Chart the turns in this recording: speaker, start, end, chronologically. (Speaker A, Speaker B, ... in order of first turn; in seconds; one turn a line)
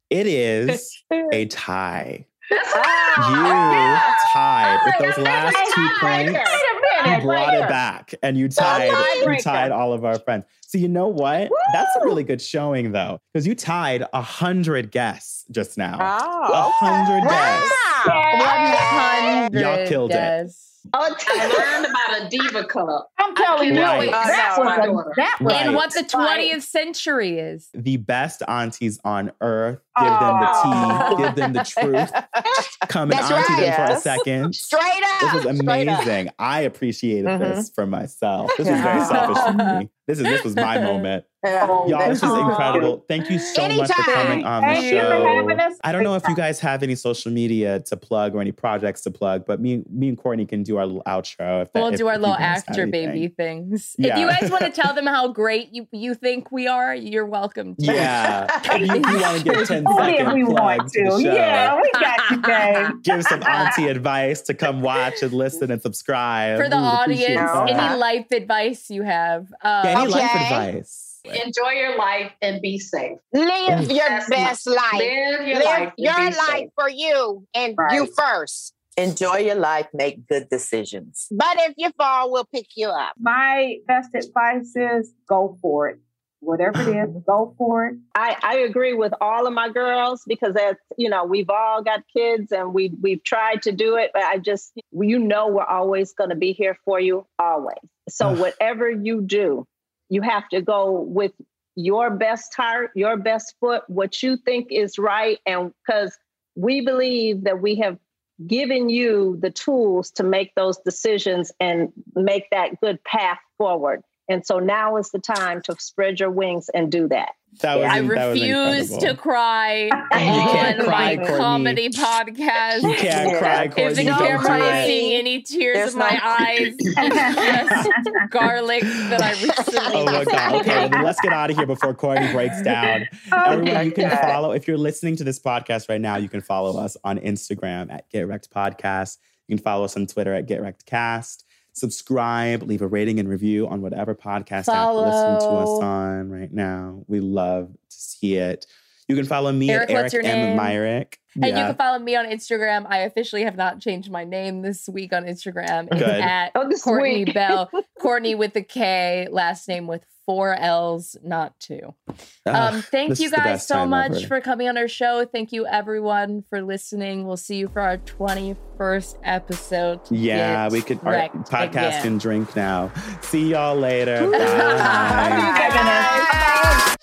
Speaker A: 0.1-2.3
Speaker B: 2.5-4.2
Speaker C: 2.8-3.7
Speaker A: 3.2-6.5
Speaker D: 3.8-4.1
Speaker B: 4.9-6.3
Speaker E: 5.3-7.8
Speaker D: 5.4-6.7
Speaker A: 7.0-17.7
Speaker D: 8.6-9.7
Speaker F: 8.6-9.3
Speaker C: 16.0-17.5
Speaker F: 17.2-19.4
Speaker E: 18.0-19.1
Speaker G: 18.3-20.8
Speaker A: 19.5-20.4
Speaker D: 20.9-21.9
Speaker B: 21.3-25.3
Speaker E: 23.2-26.0
Speaker A: 23.7-24.2
Speaker C: 24.0-25.0
Speaker A: 25.4-26.0
Speaker G: 25.5-27.7
Speaker A: 27.7-32.3
Speaker E: 29.9-31.3
Speaker C: 30.3-34.2
Speaker A: 32.9-34.6
Speaker F: 33.1-34.0
Speaker F: 34.5-36.1
Speaker A: 35.2-41.3
Speaker C: 37.2-37.7
Speaker C: 38.6-39.5
Speaker G: 38.7-41.0
Speaker C: 41.4-42.4
Speaker E: 41.6-43.0
Speaker A: 41.8-53.3
Speaker F: 42.2-42.8
Speaker G: 43.2-43.5
Speaker F: 43.5-44.5
Speaker E: 44.1-46.4
Speaker G: 44.6-45.4
Speaker G: 51.7-58.1
Speaker A: 54.0-54.7
Speaker A: 57.8-61.8
Speaker C: 57.8-58.9
Speaker E: 58.7-63.8
Speaker G: 59.0-60.3
Speaker A: 63.0-68.0
Speaker G: 63.5-63.8
Speaker G: 66.6-70.3
Speaker F: 67.3-68.0
Speaker C: 67.5-68.0
Speaker A: 69.8-71.4
Speaker F: 69.9-70.7
Speaker B: 71.3-73.2
Speaker F: 73.3-78.7
Speaker A: 73.7-73.9
Speaker B: 73.9-76.7
Speaker E: 77.8-78.1
Speaker C: 79.0-81.3
Speaker F: 81.3-83.2
Speaker E: 83.2-88.0
Speaker D: 88.2-117.4
Speaker A: 117.6-119.2
Speaker C: 117.7-118.0
Speaker G: 117.9-131.0
Speaker A: 120.1-122.0
Speaker E: 120.2-120.6
Speaker D: 120.3-121.0
Speaker C: 120.4-121.0
Speaker A: 122.8-125.0
Speaker C: 123.0-125.1
Speaker C: 125.7-126.9
Speaker E: 127.0-128.2
Speaker F: 129.7-130.8
Speaker A: 129.9-151.8
Speaker E: 130.6-131.0
Speaker E: 133.3-134.2
Speaker C: 133.5-134.4
Speaker G: 144.6-145.9
Speaker G: 149.7-150.8
Speaker G: 151.4-161.9
Speaker A: 155.9-156.3
Speaker D: 156.5-157.6
Speaker A: 162.5-164.3
Speaker G: 162.5-172.1
Speaker A: 170.1-175.6
Speaker G: 174.3-176.6
Speaker E: 174.9-176.4
Speaker D: 175.3-176.4
Speaker F: 175.7-176.8